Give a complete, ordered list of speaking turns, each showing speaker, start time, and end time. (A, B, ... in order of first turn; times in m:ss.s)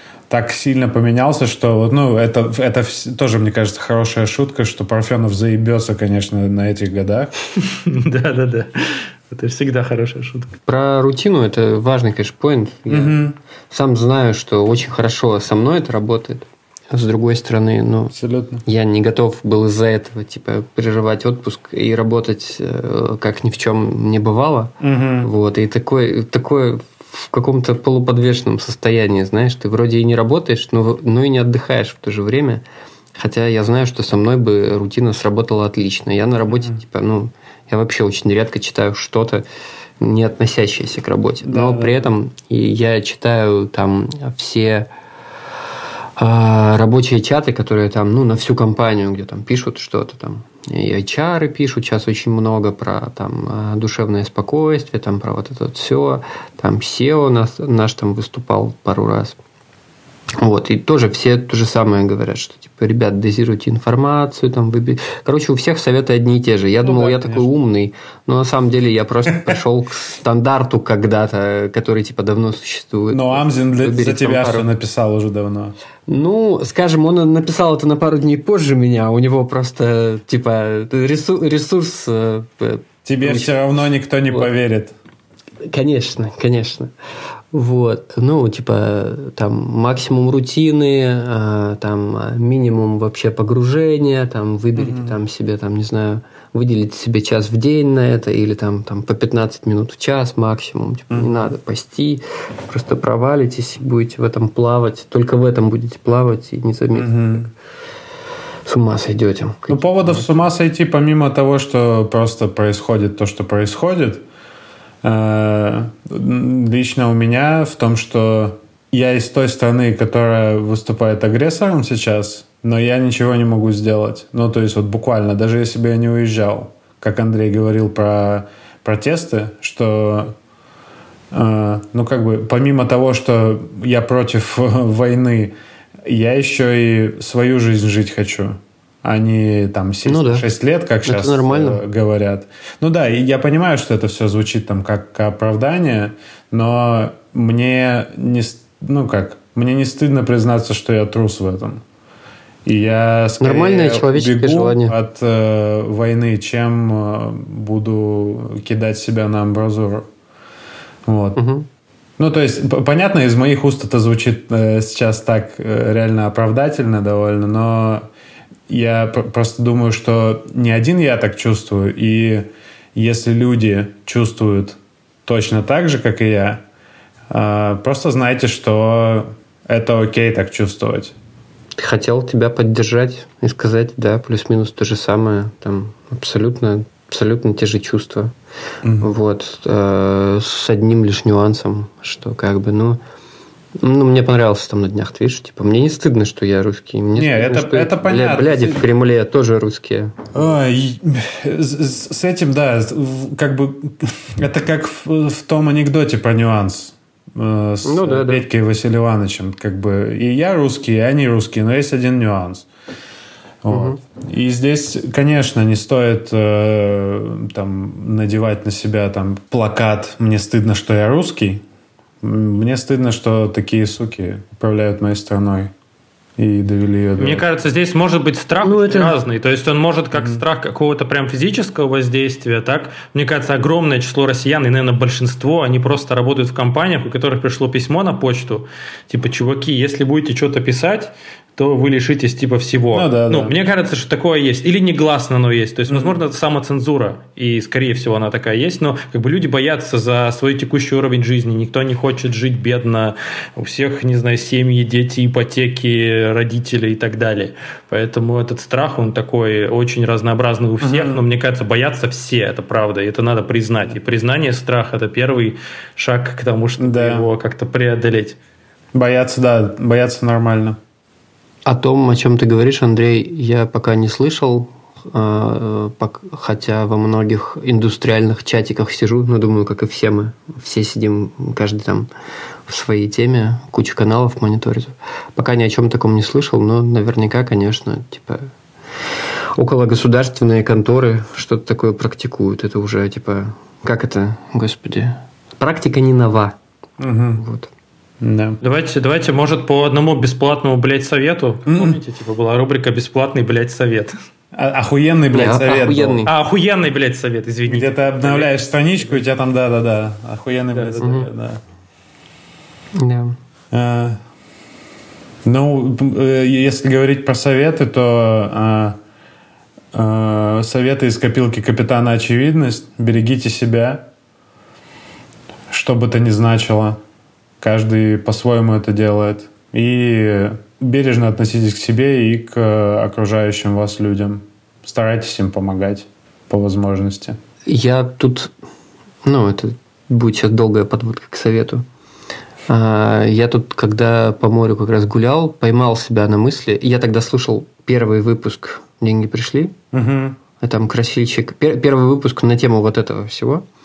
0:00.3-0:07.3 A
0:07.6-0:10.5 B
0:10.7-0:18.1 C
0:12.9-0:13.4 A
0:18.1-0:18.6 A
0:18.7-0:32.6 C
0:24.8-0:25.3 A
0:33.2-0:39.4 C
0:40.0-0:44.9 C
0:41.4-0:42.1 A
0:46.2-0:59.4 C
1:00.4-1:14.7 C
1:06.8-1:07.5 A
1:13.1-1:15.8 A
1:16.1-1:23.6 C
1:23.0-1:24.9 A
1:25.7-1:26.9 C
1:27.5-1:47.5 C
1:34.8-1:35.2 A
1:47.0-1:47.5 A
1:48.7-1:50.3 C
1:49.7-1:54.2 A
1:55.0-2:10.4 A
2:11.3-2:31.8 A
2:20.1-2:20.5 C
2:21.0-2:21.8 C
2:32.7-2:40.1 A
2:33.4-2:35.0 C
2:41.1-2:41.4 A
2:41.4-2:41.7 C
2:42.2-2:48.0 A
2:48.7-2:56.6 A
2:57.3-3:01.1 A
3:01.8-3:08.3 C
3:08.8-3:09.1 A
3:09.0-3:13.0 C
3:13.8-3:20.3 C
3:17.2-3:18.8 A
3:20.3-3:32.7 A
3:27.8-3:28.5 C
3:33.6-3:41.6 A
3:33.7-3:34.0 C
3:42.2-3:45.7 A
3:46.4-3:47.4 A
3:47.2-4:28.4 B
3:48.6-3:49.2 C
3:50.2-3:50.4 A
4:02.9-4:03.5 A
4:05.9-4:06.2 A
4:20.8-4:21.2 A
4:26.8-4:27.3 A
4:28.9-4:30.8 A
4:31.7-4:42.1 C
4:42.7-4:48.5 C
4:49.6-4:56.6 C
4:57.0-4:57.4 A
4:57.4-4:57.7 C
4:58.2-4:58.6 A
4:58.6-5:04.2 B
5:01.7-5:02.0 A
5:04.5-5:06.3 A
5:05.3-5:06.3 C
5:06.3-5:08.5 B
5:07.7-5:11.6 A
5:10.7-5:11.2 B
5:11.0-5:11.3 C
5:13.0-5:13.4 C
5:13.7-5:14.2 A
5:15.4-5:19.0 A
5:19.9-5:24.0 A
5:25.7-5:27.0 A
5:27.6-5:37.4 A
5:37.7-5:38.5 C
5:39.2-5:41.8 C
5:42.7-5:49.8 C
5:49.9-5:50.4 A
5:50.6-5:53.6 C